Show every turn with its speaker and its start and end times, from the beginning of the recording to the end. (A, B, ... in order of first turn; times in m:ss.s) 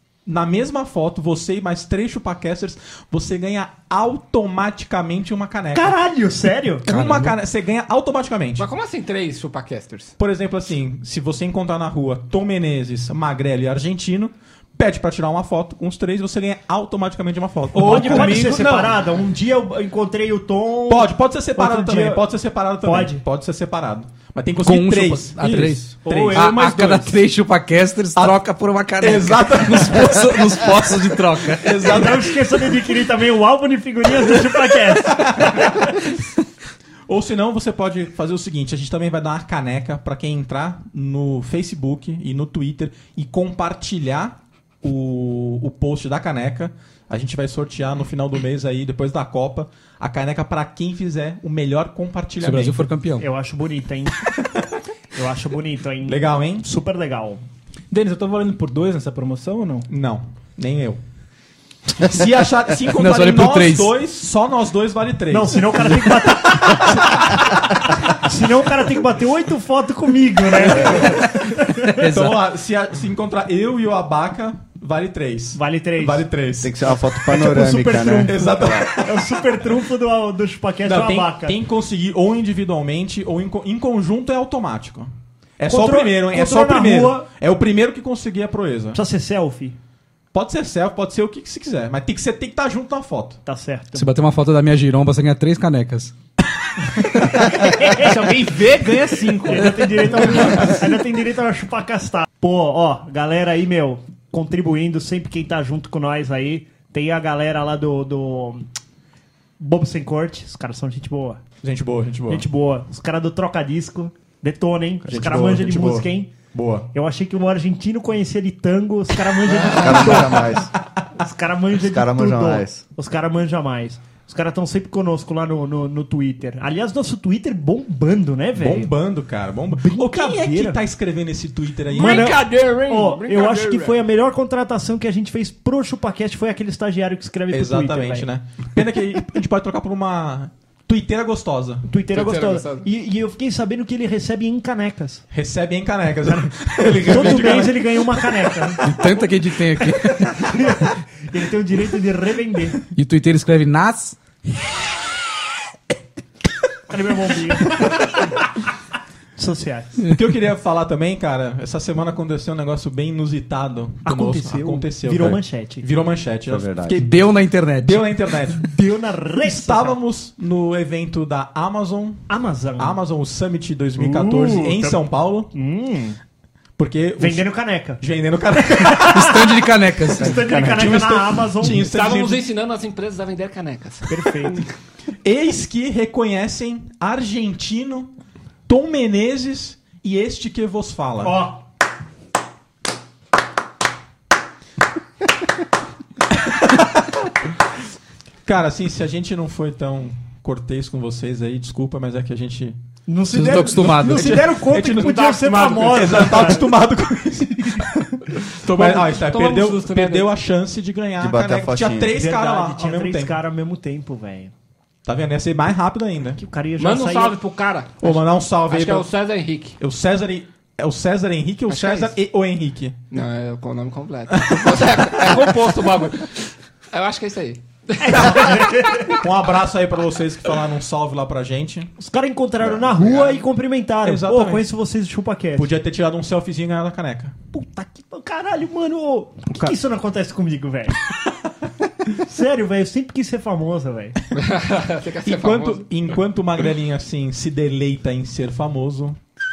0:00.2-0:05.9 A
0:05.7-0:06.8 B
0:06.8-0:08.6 A
0:06.9-0:07.4 C
0:08.6-0:10.1 D
0:10.2-0:18.5 A
0:17.7-0:19.0 E
0:17.8-0:22.3 B
0:20.9-0:25.4 A
0:22.8-0:23.2 B
0:24.6-0:31.7 C
0:25.4-0:27.2 E
0:26.0-0:26.6 A
0:28.1-0:28.4 A
0:29.0-0:30.7 A
0:31.6-0:32.3 A
0:31.8-0:35.7 B
0:37.1-0:52.8 A
0:52.4-0:53.2 C
0:53.2-0:54.2 B
0:55.1-0:57.4 B
0:56.0-0:56.6 A
0:57.9-0:59.9 E
0:59.9-1:01.0 A
1:02.0-1:06.0 A
1:02.9-1:04.0 C
1:05.3-1:07.4 B
1:08.0-1:11.9 B
1:10.8-1:11.2 A
1:11.8-1:12.4 C
1:12.0-1:16.7 A
1:15.5-1:16.2 B
1:16.6-1:18.9 F
1:17.2-1:21.6 B
1:18.2-1:19.4 A
1:20.8-1:29.0 A
1:25.6-1:27.3 B
1:28.9-1:29.8 B
1:30.3-1:33.4 A
1:33.4-1:34.1 B
1:33.9-1:36.1 C
1:37.1-1:38.1 B
1:37.9-1:40.4 E
1:39.4-1:48.7 B
1:49.6-1:51.4 B
1:51.6-1:52.4 A
1:52.3-1:56.3 B
1:55.0-1:56.1 F
1:56.5-1:56.9 A
1:56.9-2:08.9 B
1:59.6-2:00.7 F
2:01.8-2:02.8 F
2:08.6-2:12.4 A
2:09.7-2:10.8 B
2:11.9-2:18.3 B
2:11.9-2:14.0 D
2:17.5-2:21.9 A
2:21.8-2:25.2 B
2:22.1-2:22.8 D
2:25.3-2:27.8 A
2:26.3-2:28.8 B
2:28.8-2:30.7 C
2:30.1-2:32.8 B
2:33.0-2:34.2 C
2:36.9-2:38.4 B
2:39.4-2:40.0 B
2:40.1-2:47.2 A
2:44.0-2:45.9 B
2:46.5-2:47.0 F
2:46.9-2:48.0 C
2:47.8-2:48.6 A
2:48.4-2:50.0 B
2:49.4-2:55.5 A
2:52.3-2:53.0 B
2:54.0-2:56.2 B
2:56.8-2:59.2 A
2:57.2-2:58.0 B
2:58.6-3:01.9 B
2:59.0-3:00.8 C
3:00.5-3:02.5 A
3:01.7-3:04.6 D
3:04.1-3:04.6 B
3:05.2-3:08.1 A
3:08.7-3:11.3 A
3:11.2-3:11.6 B
3:18.4-3:22.8 A
3:23.1-3:26.7 B
3:23.3-3:24.4 C
3:23.5-3:25.2 A
3:25.0-3:26.5 D
3:25.8-3:33.4 A
3:28.6-3:30.3 D
3:31.2-3:32.1 F
3:32.1-3:34.5 B
3:35.0-3:36.4 A
3:36.4-3:37.4 B
3:36.8-3:39.8 D
3:38.0-3:39.1 A
3:39.8-3:43.0 A
3:41.7-3:42.2 D
3:43.1-3:48.8 D
3:44.5-3:45.5 A
3:48.0-3:49.2 B
3:49.1-3:51.9 A
3:52.0-3:55.7 B
3:53.1-3:53.4 D
3:54.0-3:54.6 A
3:55.5-3:57.4 A
3:57.5-4:01.0 B
4:02.1-4:04.2 B
4:04.3-4:05.9 D
4:05.2-4:09.2 A